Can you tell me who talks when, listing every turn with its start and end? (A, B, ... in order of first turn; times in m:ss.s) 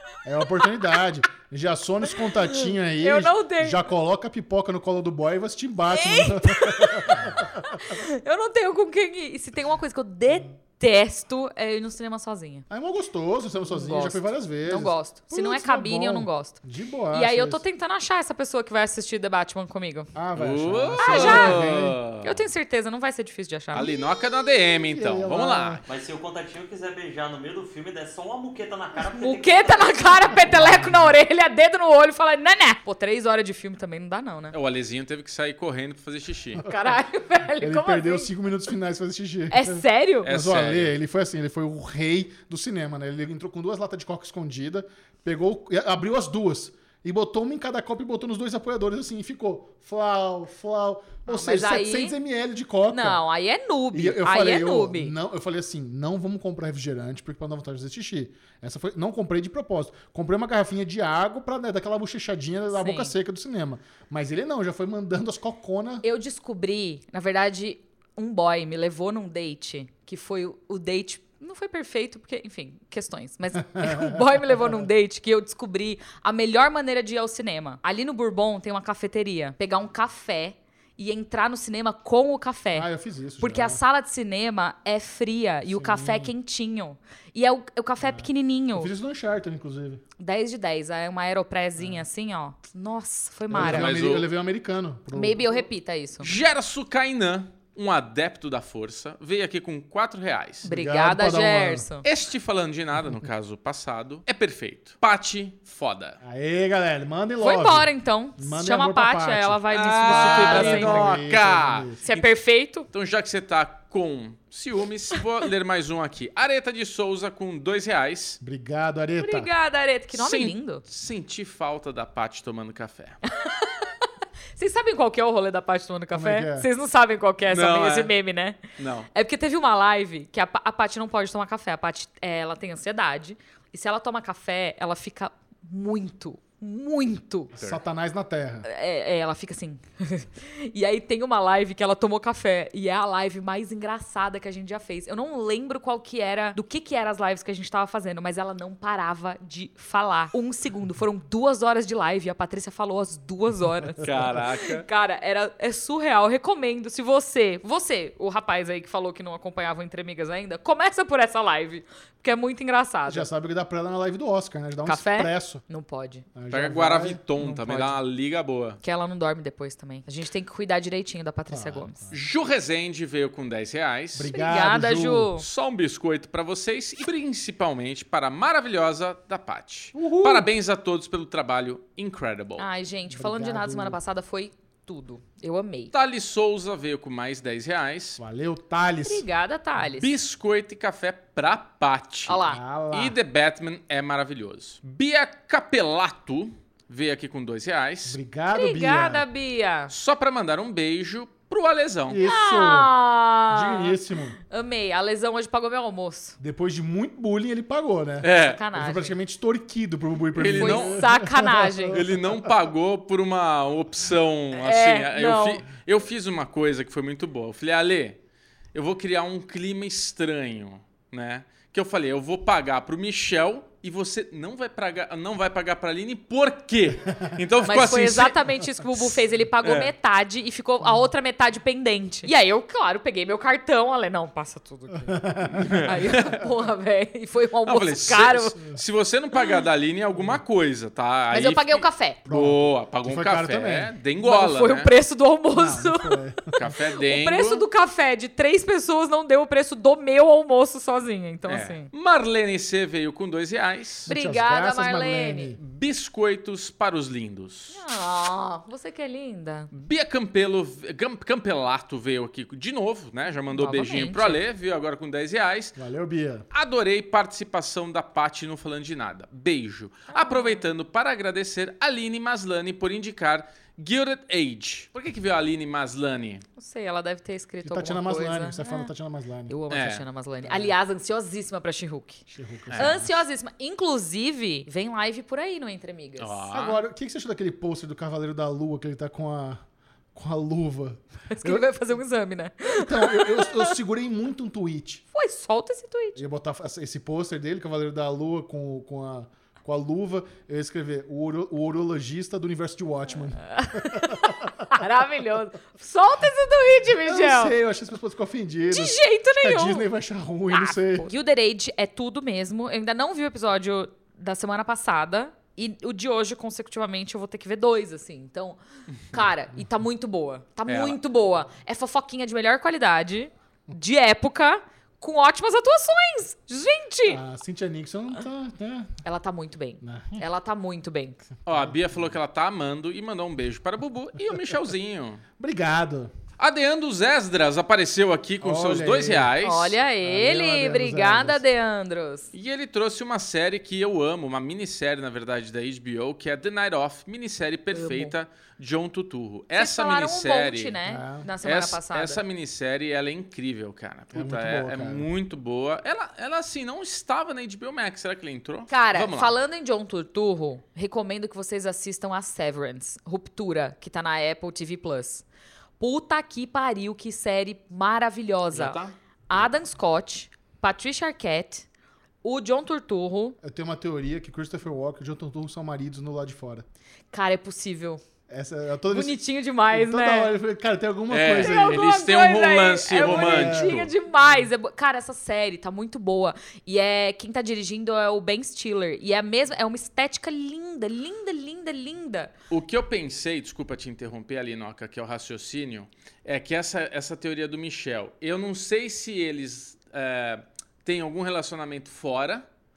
0:00.2-0:07.8 A
0:02.5-0:03.8 B
0:05.9-0:12.7 B
0:12.7-0:17.6 A
0:13.6-0:16.6 B
0:17.1-0:20.1 B
0:20.1-0:22.0 A
0:20.4-0:22.4 C
0:21.0-0:21.6 B
0:22.2-0:24.0 B
0:23.7-0:25.8 C
0:24.9-0:25.8 A
0:25.9-0:30.4 D
0:29.1-0:34.6 B
0:30.5-0:30.9 A
0:34.5-0:36.6 C
0:36.6-0:36.9 A
0:36.6-0:38.3 B
0:37.6-0:53.2 A
0:39.5-0:40.3 B
0:40.2-0:40.9 C
0:51.3-0:52.2 B
0:52.9-0:55.2 B
0:53.9-1:06.0 A
1:02.7-1:03.1 B
1:06.0-1:22.9 B
1:13.7-1:14.2 A
1:22.7-1:23.8 A
1:23.4-1:28.9 B
1:25.7-1:26.3 A
1:28.0-1:30.0 A
1:30.2-1:34.0 B
1:31.8-1:32.0 A
1:33.5-1:35.5 A
1:33.5-1:34.3 C
1:35.1-1:36.3 B
1:36.2-1:40.6 C
1:40.6-1:41.9 A
1:40.6-1:42.1 B
1:42.0-1:46.2 C
1:46.2-1:52.0 A
1:47.4-1:51.2 B
1:49.7-1:52.3 C
1:52.0-1:52.9 B
1:52.9-1:58.4 C
1:58.4-1:59.5 A
1:59.2-2:00.8 B
2:00.1-2:03.2 C
2:03.3-2:17.5 B
2:06.1-2:06.7 A
2:07.5-2:08.1 C
2:08.8-2:09.1 C
2:17.5-2:18.7 A
2:18.6-2:43.3 B
2:34.0-2:34.9 C
2:43.1-2:45.6 A
2:44.8-2:46.3 B
2:46.4-2:47.2 A
2:46.5-2:48.8 C
2:47.4-2:47.9 B
2:48.8-2:52.1 B
2:51.5-2:52.2 A
2:52.1-2:54.3 C
2:54.2-2:55.3 A
2:54.3-2:55.4 B
2:55.4-3:02.6 C
3:00.0-3:00.5 A
3:02.6-3:05.9 B
3:03.1-3:04.0 A
3:05.9-3:08.2 C
3:08.2-3:09.2 A
3:09.0-3:10.1 B
3:09.8-3:18.2 C
3:12.3-3:12.6 B
3:12.5-3:13.2 A
3:18.1-3:19.3 A
3:18.5-3:19.9 B
3:19.9-3:22.2 C
3:22.1-3:22.9 A
3:22.2-3:24.0 B
3:23.5-3:24.4 A
3:24.5-3:26.4 B
3:26.4-3:32.5 A
3:28.2-3:28.6 C
3:28.3-3:29.2 B
3:30.4-3:31.1 C
3:30.5-3:32.1 B
3:31.9-3:38.2 C
3:34.5-3:35.6 B
3:38.7-3:48.5 C
3:47.6-3:58.6 B
3:49.6-3:49.9 C
3:55.0-3:55.9 A
3:55.5-3:56.4 C
3:57.6-4:04.9 C
3:59.4-3:59.6 B
4:01.3-4:02.2 B
4:02.3-4:03.9 A
4:04.2-4:11.9 B
4:05.6-4:06.5 A
4:06.6-4:07.6 C
4:11.5-4:14.1 C
4:14.1-4:15.6 A
4:14.1-4:15.5 B
4:15.6-4:17.8 C
4:17.7-4:19.7 B
4:19.7-4:25.8 C
4:23.5-4:24.4 B
4:25.8-4:26.4 A
4:26.5-4:36.4 C
4:30.1-4:30.7 B
4:36.6-4:38.9 B
4:37.6-4:39.6 A
4:39.5-4:42.2 B
4:39.7-4:40.0 C
4:40.5-4:40.7 A
4:42.3-4:43.1 A
4:42.7-4:43.0 C
4:42.8-4:46.4 B
4:46.2-4:46.8 C
4:46.5-4:49.6 A
4:50.2-4:51.7 A
4:51.3-4:53.8 B
4:52.6-4:55.0 A
4:55.1-4:56.2 B
4:56.2-5:04.7 A
5:03.5-5:07.5 B
5:07.0-5:11.1 A
5:08.7-5:09.9 B
5:10.5-5:18.6 B
5:19.1-5:27.2 B
5:20.7-5:21.0 C
5:27.1-5:28.9 A
5:29.0-5:31.2 B
5:29.8-5:30.2 A
5:31.5-5:35.2 C
5:35.4-5:36.1 A
5:36.4-5:39.8 C
5:38.4-5:39.4 A
5:39.4-5:42.3 B
5:40.0-5:41.4 A
5:42.3-5:50.8 C
5:47.7-5:48.2 B
5:49.6-5:52.2 B
5:50.8-5:51.3 A
5:51.4-5:59.4 C
5:54.1-5:55.1 A
5:58.7-6:05.2 B
6:05.8-6:11.7 B
6:08.5-6:08.9 C
6:12.2-6:13.4 B
6:13.4-6:16.6 A
6:17.1-6:18.0 B
6:18.3-6:19.2 A
6:18.9-6:20.3 B
6:19.7-6:21.9 A
6:21.1-6:23.9 C
6:21.4-6:32.3 B
6:23.0-6:23.8 A
6:32.5-6:42.5 C